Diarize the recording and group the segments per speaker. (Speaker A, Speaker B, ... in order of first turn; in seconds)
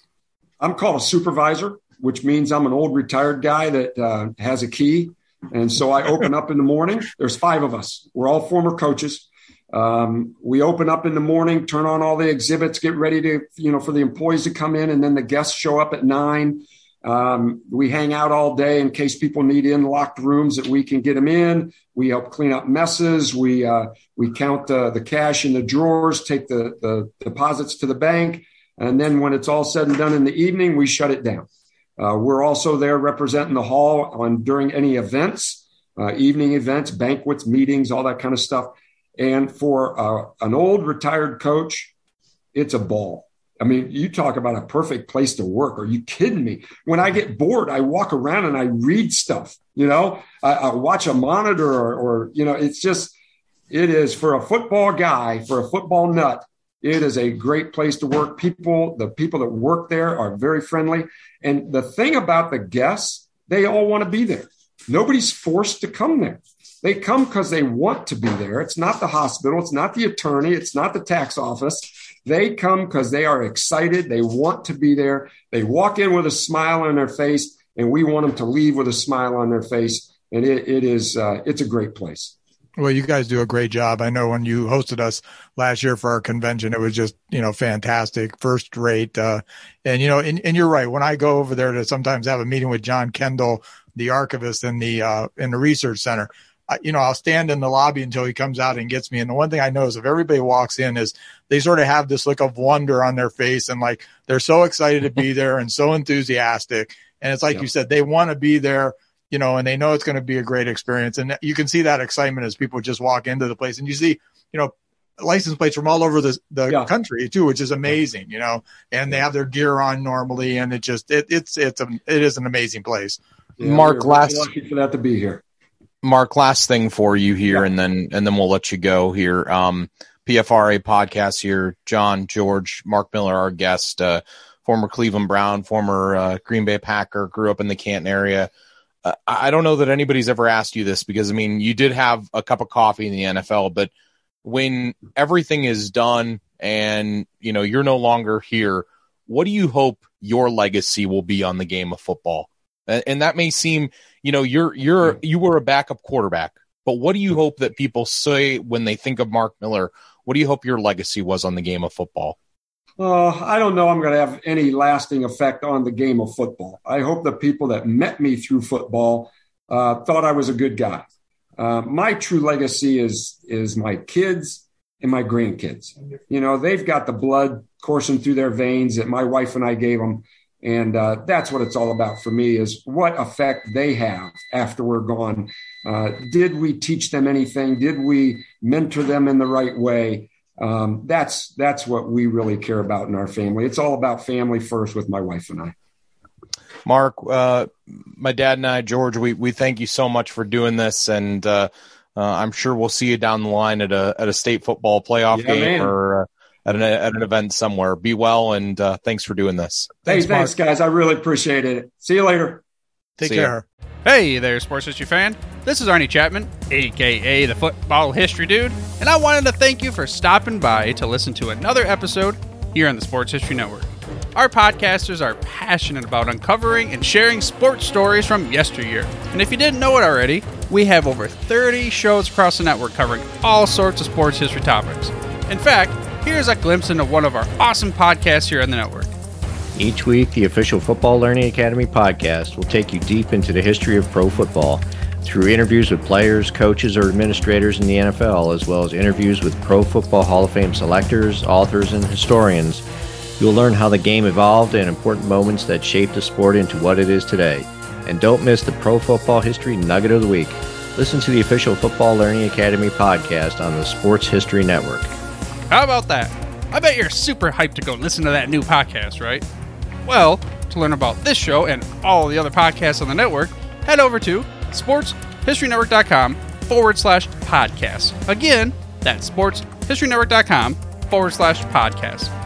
Speaker A: 0.6-31.5, 32.0-41.9, 42.5-53.1, 53.7-82.3, 123.6-125.4, 163.0-171.1, 171.6-195.8, 205.3-205.9, 210.1-212.6
Speaker B: 82.8-123.2, 210.1-210.5, 213.2-213.7
Speaker C: 123.6-124.5, 126.0-138.5, 139.0-143.9, 144.4-162.4, 196.8-210.0, 213.2-213.5
Speaker D: 214.1-239.1, 265.7-269.4, 270.1-282.3
Speaker E: 239.8-252.8, 253.4-265.1